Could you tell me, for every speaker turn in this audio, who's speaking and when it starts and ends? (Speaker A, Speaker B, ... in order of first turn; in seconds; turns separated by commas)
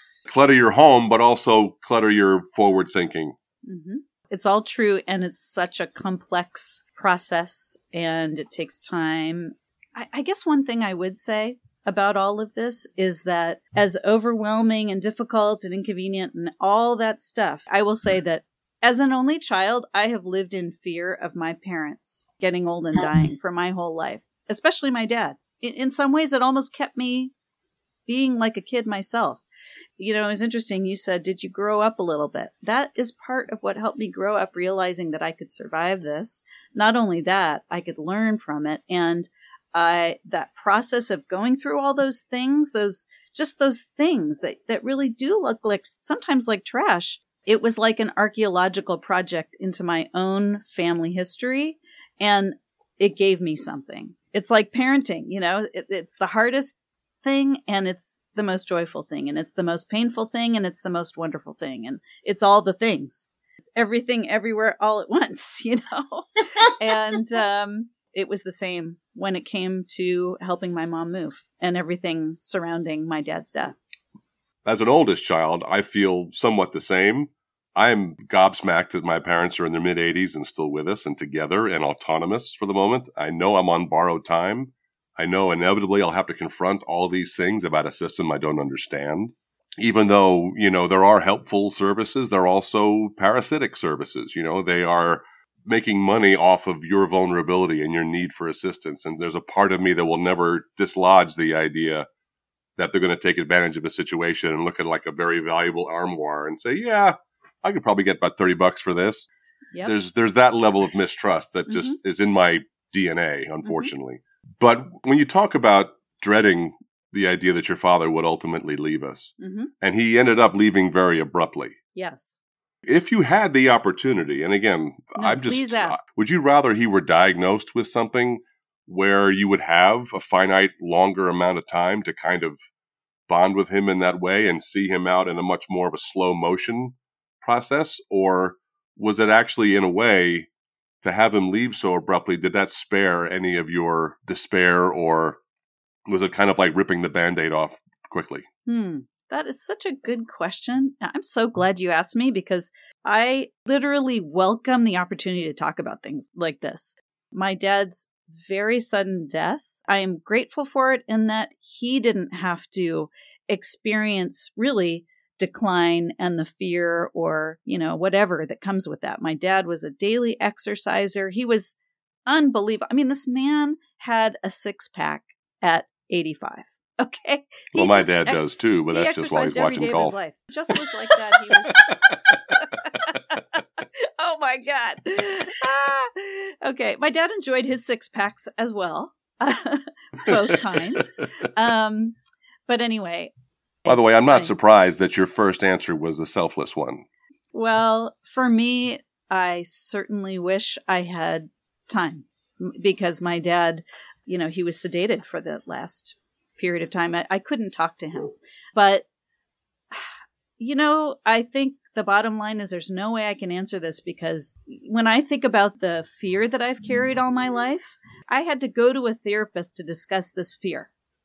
Speaker A: 0.3-3.4, Speaker B: 3.6-27.3, Speaker B: 28.1-29.4, Speaker B: 30.0-73.8, Speaker A: 74.7-102.1, Speaker A: 102.8-109.3, Speaker A: 109.8-121.8, Speaker B: 111.7-112.0, Speaker B: 113.6-113.9, Speaker B: 119.4-119.7, Speaker B: 122.0-122.4, Speaker A: 122.9-132.6, Speaker B: 125.2-126.0, Speaker A: 133.3-140.5, Speaker A: 141.0-145.4, Speaker A: 146.1-148.5, Speaker B: 148.7-182.0, Speaker A: 177.7-180.2, Speaker A: 181.7-182.7, Speaker B: 182.5-192.2, Speaker B: 192.7-193.3, Speaker B: 193.8-194.5, Speaker A: 193.9-197.1, Speaker B: 197.5-209.1, Speaker B: 209.9-220.9